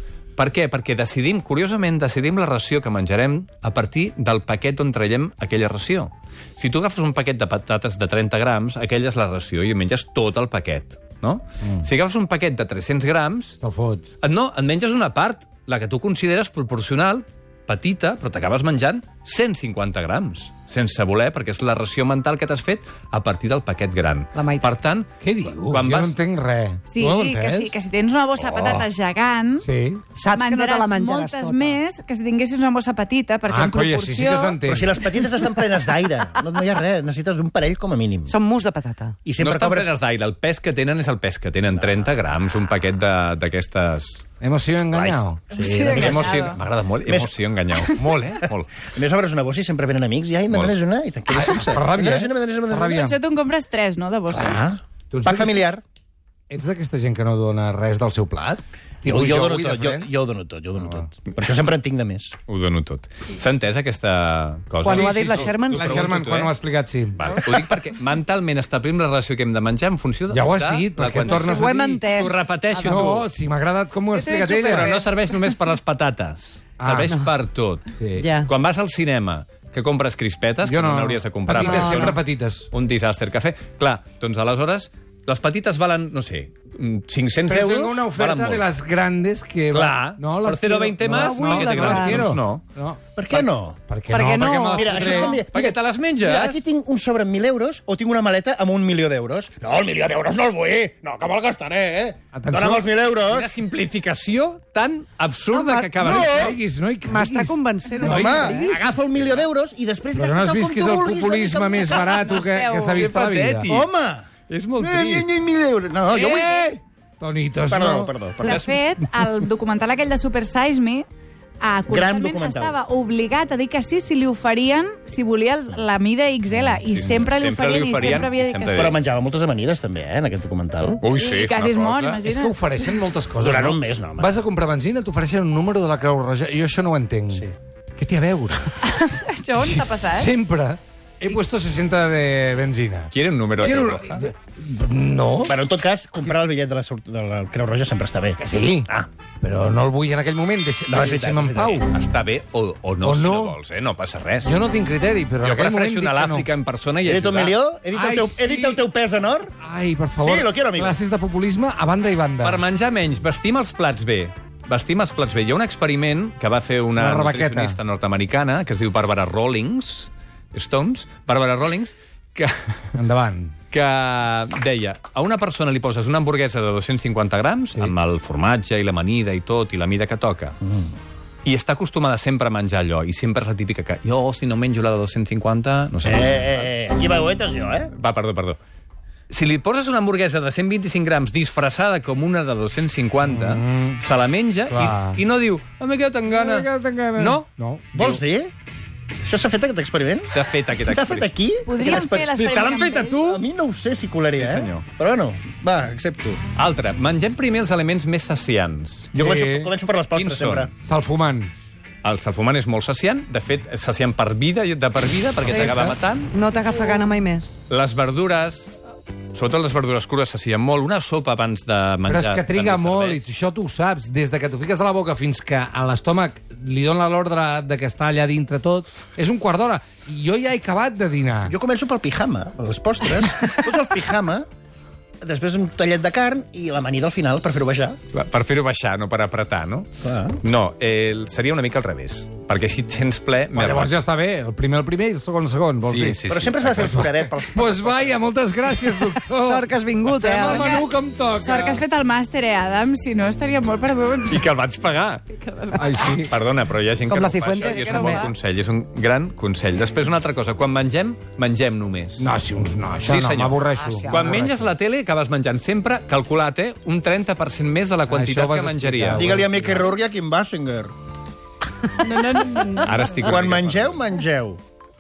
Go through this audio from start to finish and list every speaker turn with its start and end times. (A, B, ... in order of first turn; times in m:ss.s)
0:00.4-0:13.6 A
0:11.6-0:11.9 B
0:13.6-0:14.1 B
0:14.2-0:26.2 A
0:24.4-0:24.7 C
0:25.2-0:27.7 B
0:26.9-0:29.7 D
0:29.6-0:30.0 B
0:30.2-0:31.8 C
0:30.3-0:34.6 D
0:33.5-0:35.0 B
0:34.7-0:38.4 E
0:38.3-0:39.2 C
0:39.2-0:39.9 E
0:39.4-0:44.2 A
0:41.8-0:42.1 E
0:44.4-0:45.4 B
0:45.0-0:47.3 E
0:45.5-0:46.6 D
0:46.0-0:48.8 A
0:48.9-0:52.9 E
0:50.5-0:50.8 A
0:51.3-0:53.2 B
0:52.8-0:54.6 D
0:54.3-0:55.8 E
0:55.1-0:55.6 B
0:56.5-1:00.2 B
0:59.0-1:02.4 E
1:00.8-1:01.1 B
1:02.5-1:06.6 A
1:04.8-1:06.0 C
1:05.7-1:07.4 B
1:07.2-1:13.2 A
1:10.3-1:12.0 B
1:11.2-1:13.2 C
1:12.8-1:14.9 B
1:14.1-1:15.1 D
1:14.6-1:17.9 A
1:16.8-1:17.2 B
1:17.1-1:17.3 C
1:18.0-1:18.3 B
1:18.2-1:18.5 C
1:18.4-1:28.7 A
1:20.6-1:22.7 B
1:21.5-1:22.1 C
1:27.5-1:35.4 B
1:29.7-1:32.6 A
1:31.1-1:32.4 C
1:33.2-1:33.8 E
1:34.1-1:35.4 C
1:34.8-1:43.5 E
1:35.5-1:36.6 A
1:42.3-1:42.8 B
1:43.3-1:46.5 A
1:45.5-1:46.5 C
1:46.0-1:46.6 E
1:46.0-1:49.0 B
1:47.1-1:48.7 C
1:47.9-1:48.4 D
1:48.0-1:52.3 E
1:50.2-1:53.7 B
1:52.0-1:53.0 D
1:52.9-1:53.9 A
1:53.7-1:56.6 E
1:54.5-1:55.3 A
1:56.1-1:58.1 B
1:57.7-1:58.7 E
1:58.4-2:01.1 D
1:58.4-1:59.2 A
2:01.6-2:08.9 D
2:01.9-2:02.8 E
2:06.8-2:09.0 A
2:08.7-2:11.0 E
2:11.0-2:12.2 A
2:11.1-2:12.6 D
2:12.2-2:19.1 B
2:13.4-2:14.4 E
2:18.8-2:20.3 D
2:20.1-2:25.6 B
2:23.1-2:24.2 A
2:25.4-2:29.1 E
2:28.4-2:28.9 B
2:29.4-2:31.9 B
2:30.9-2:31.9 E
2:31.9-2:34.6 A
2:33.0-2:33.6 B
2:34.4-2:36.5 B
2:35.4-2:37.6 A
2:37.0-2:39.5 E
2:37.9-2:38.8 B
2:39.6-2:42.6 B
2:40.2-2:41.0 E
2:42.4-2:53.0 A
2:47.0-2:47.8 B
2:53.0-2:53.6 B
2:53.7-3:00.6 A
3:00.6-3:00.9 E
3:01.4-3:06.7 A
3:06.0-3:07.9 E
3:07.9-3:08.6 A
3:09.3-3:18.2 A
3:13.2-3:14.0 B
3:14.7-3:15.2 B
3:16.3-3:17.9 B
3:17.9-3:18.5 E
3:19.2-3:22.3 E
3:20.3-3:21.3 A
3:21.7-3:23.3 D
3:22.3-3:23.4 A
3:23.2-3:26.4 E
3:24.3-3:24.8 A
3:26.6-3:29.2 A
3:29.1-3:30.7 E
3:29.2-3:29.7 B
3:30.1-3:30.7 A
3:30.8-3:31.5 B
3:32.0-3:36.4 A
3:35.4-3:36.0 B
3:36.3-3:37.6 C
3:37.7-3:38.7 A
3:39.3-3:43.2 A
3:42.1-3:51.5 B
3:51.5-3:54.5 E
3:55.2-3:58.0 E
3:58.1-4:03.9 A
4:00.0-4:00.4 E
4:03.5-4:06.2 B
4:05.8-4:07.1 A
4:06.3-4:08.1 E
4:06.8-4:11.8 B
4:09.1-4:10.8 C
4:10.5-4:10.8 D
4:11.4-4:14.4 D
4:14.3-4:15.2 A
4:15.3-4:16.3 D
4:15.7-4:16.3 B
4:16.2-4:22.3 A
4:17.0-4:18.3 C
4:17.6-4:18.2 D
4:22.2-4:24.6 B
4:23.0-4:29.3 A
4:23.7-4:24.6 C
4:28.1-4:29.9 B
4:29.2-4:30.9 E
4:32.0-4:33.2 D
4:32.8-4:34.0 A
4:33.2-4:34.6 E